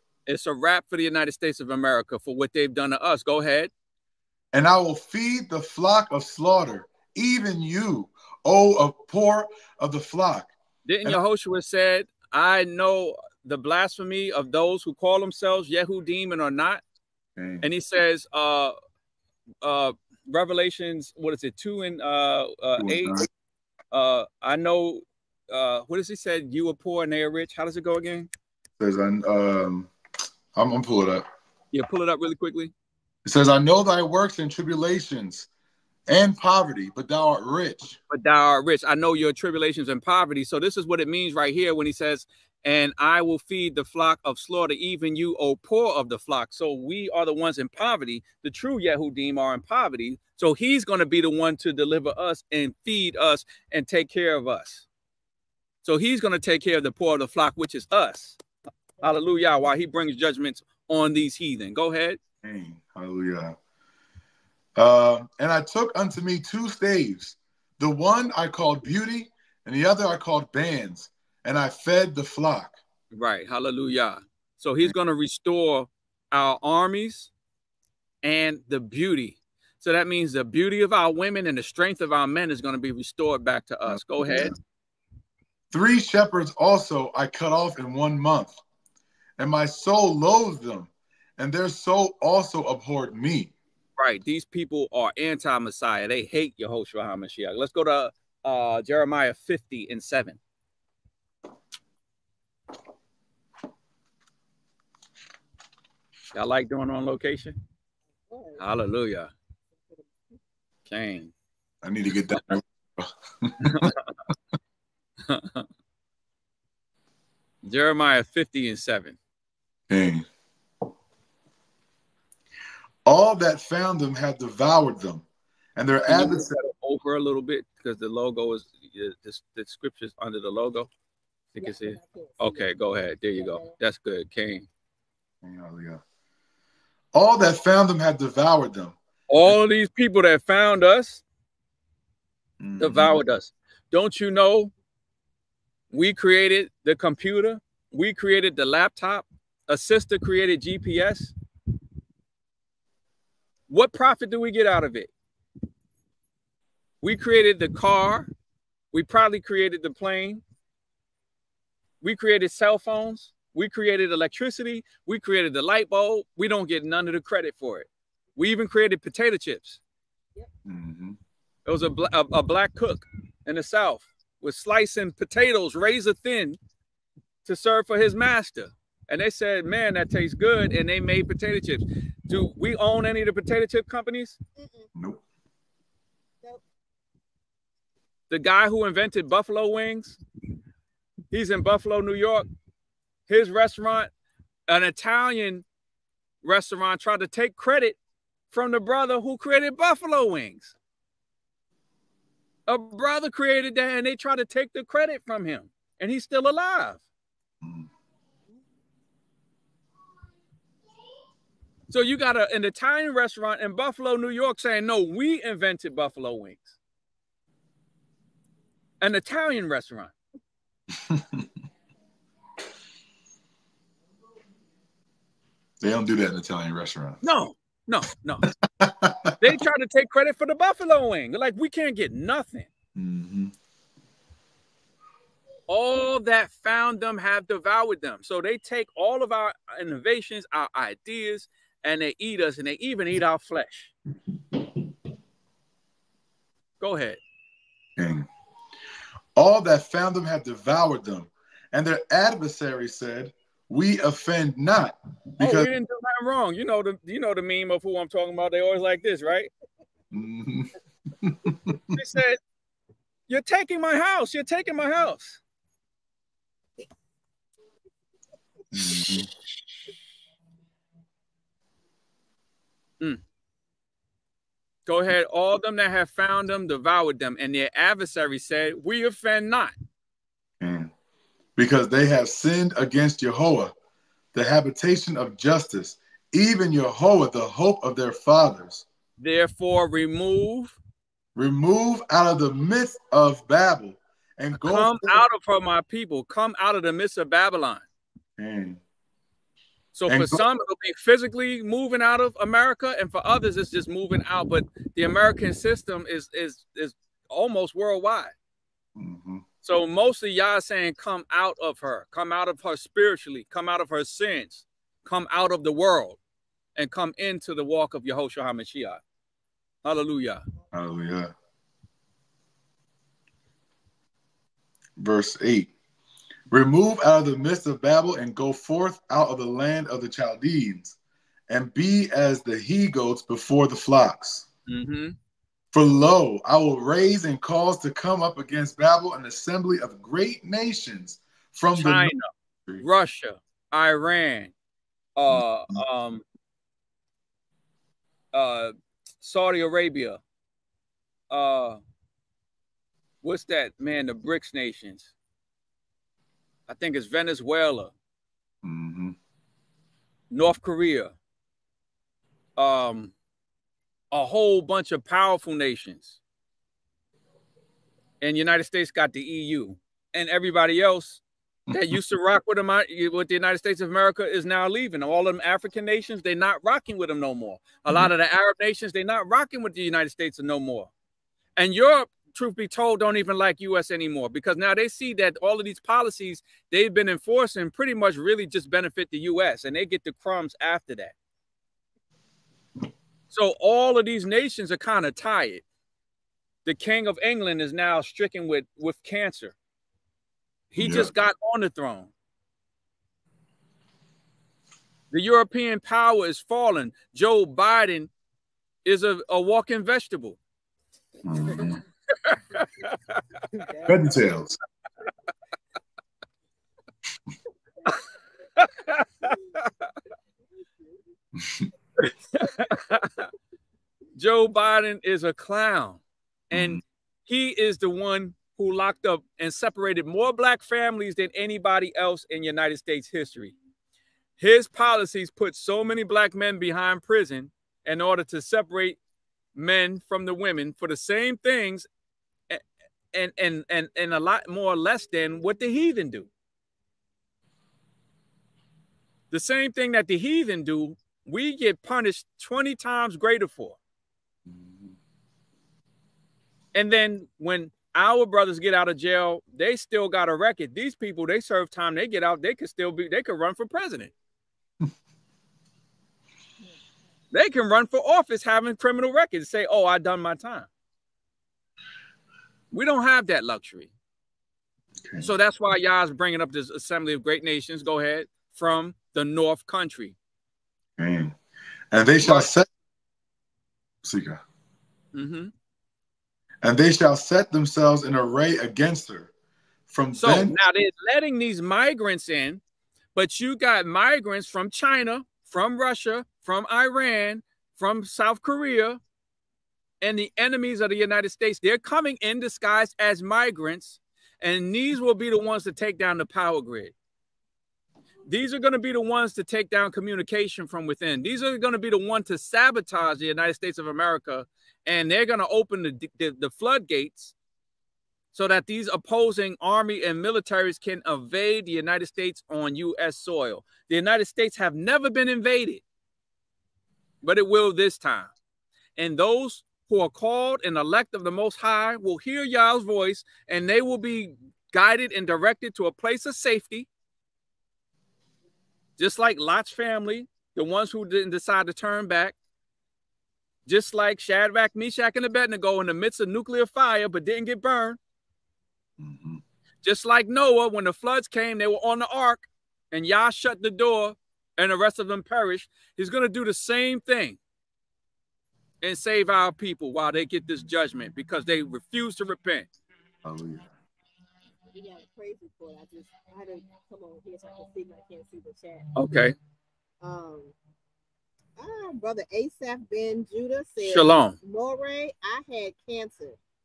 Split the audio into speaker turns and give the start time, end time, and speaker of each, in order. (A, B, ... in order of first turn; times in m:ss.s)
0:00.3-0:03.7 A
0:04.5-0:10.5 B
0:10.8-0:16.8 A
0:17.4-0:17.7 B
0:17.6-0:18.7 A
0:19.6-0:23.2 A
0:22.8-0:23.3 B
0:23.9-0:28.3 A
0:28.8-0:29.9 B
0:30.5-0:31.2 B
0:31.7-0:32.7 A
0:33.2-0:35.5 B
0:36.1-0:38.0 B
0:38.1-0:54.8 A
0:55.8-0:58.4 A
0:59.0-1:02.2 A
1:02.4-1:03.6 B
1:04.8-1:12.8 B
1:13.1-1:17.3 A
1:18.2-1:24.5 A
1:23.8-1:24.5 B
1:25.7-1:28.6 B
1:29.4-1:33.5 B
1:34.0-1:40.4 A
1:46.3-1:47.6 A
1:48.3-1:48.6 C
1:48.6-1:49.3 A
1:50.9-1:51.3 A
1:51.8-1:53.9 B
1:53.6-1:54.0 A
1:55.3-1:55.6 A
1:57.6-1:59.2 A
1:59.9-2:00.3 B
2:03.0-2:05.2 B
2:05.8-2:06.5 B
2:06.1-2:10.9 A
2:11.5-2:14.7 A
2:11.6-2:12.7 C
2:13.4-2:13.7 C
2:15.4-2:16.0 B
2:17.1-2:18.9 B
2:19.3-2:21.2 A
2:22.6-2:23.2 B
2:22.8-2:24.7 A
2:25.9-2:31.3 A
2:33.7-2:35.1 A
2:37.0-2:38.3 A
2:38.9-2:40.4 A
2:42.0-2:49.8 A
2:50.6-2:51.2 B
2:51.6-2:56.6 A
2:57.4-3:04.4 A
3:04.6-3:04.9 C
3:04.9-3:05.2 B
3:08.3-3:10.2 A
3:11.3-3:12.5 A
3:13.3-3:14.1 A
3:14.7-3:15.6 A
3:16.4-3:18.0 A
3:18.5-3:20.7 A
3:22.7-3:27.0 A
3:27.6-3:27.9 B
3:31.9-3:36.8 A
3:39.0-3:40.1 A
3:41.0-3:41.5 B
3:45.8-3:47.2 B
3:47.2-3:48.5 A
3:48.7-3:49.5 B
3:49.4-3:52.7 A
3:53.0-3:53.5 B
3:55.7-4:03.9 A
4:06.8-4:07.2 A
4:08.0-4:08.3 B
4:09.4-4:15.7 B
4:15.4-4:19.5 A
4:20.1-4:22.0 B
4:21.9-4:22.4 A
4:23.3-4:25.4 A
4:28.7-4:29.3 B
4:34.9-4:39.7 A
4:40.6-4:40.9 B
4:41.6-4:43.7 B
4:44.3-4:48.8 B
4:49.2-4:50.8 A
4:51.4-4:55.2 B
4:54.6-4:57.8 A
4:58.4-4:58.8 B
4:59.9-5:08.3 A
5:00.1-5:00.4 B
5:09.0-5:09.4 B
5:09.6-5:16.2 A
5:16.8-5:19.0 A
5:19.8-5:20.4 A
5:20.7-5:21.3 B
5:25.0-5:25.7 B
5:26.5-5:31.0 B
5:31.5-5:34.4 B
5:34.7-5:35.2 A
5:35.7-5:42.1 B
5:41.7-5:42.3 A
5:42.8-5:44.5 A
5:45.2-5:46.2 A
5:45.3-5:45.8 B
5:48.3-5:50.2 A
5:51.3-5:51.8 A
5:53.2-5:55.1 A
5:56.7-5:57.9 A
5:58.6-5:59.2 B
6:00.3-6:01.1 A
6:02.6-6:03.1 A
6:04.1-6:06.2 A
6:08.2-6:20.9 A
6:11.7-6:12.0 B
6:21.6-6:31.1 A
6:33.3-6:35.6 A
6:36.6-6:39.5 A
6:40.7-6:42.1 A
6:40.8-6:41.1 B
6:45.1-6:48.1 A
6:48.8-6:50.4 A
6:51.2-6:51.8 B
6:52.2-6:53.0 A
6:53.8-6:54.6 B
6:58.6-6:59.3 A
7:02.0-7:03.3 A
7:04.2-7:06.0 A
7:06.5-7:06.8 B
7:06.5-7:13.5 A
7:14.4-7:19.0 A
7:19.6-7:21.9 A
7:23.1-7:26.3 A
7:29.3-7:33.8 A
7:34.5-7:34.9 B
7:36.7-7:44.1 A
7:47.3-7:50.7 A
7:52.7-7:53.9 A
7:55.0-7:55.3 B
7:55.2-8:00.2 A
8:01.0-8:01.3 B
8:01.9-8:02.7 B
8:04.0-8:04.4 B
8:05.1-8:05.5 A
8:06.6-8:09.3 B
8:09.9-8:10.5 B
8:10.2-8:12.6 A
8:13.1-8:19.0 A
8:20.0-8:26.9 A
8:28.3-8:37.3 A
8:38.3-8:45.8 A
8:47.2-8:48.3 A
8:49.0-8:56.9 A
8:59.0-9:02.3 A
9:03.6-9:08.0 A
9:09.0-9:09.4 B
9:09.8-9:17.4 A
9:18.8-9:22.7 A
9:23.2-9:23.7 B
9:24.7-9:28.8 C
9:29.0-9:29.4 A
9:30.0-9:30.5 C
9:31.6-9:36.4 C
9:33.8-9:34.4 A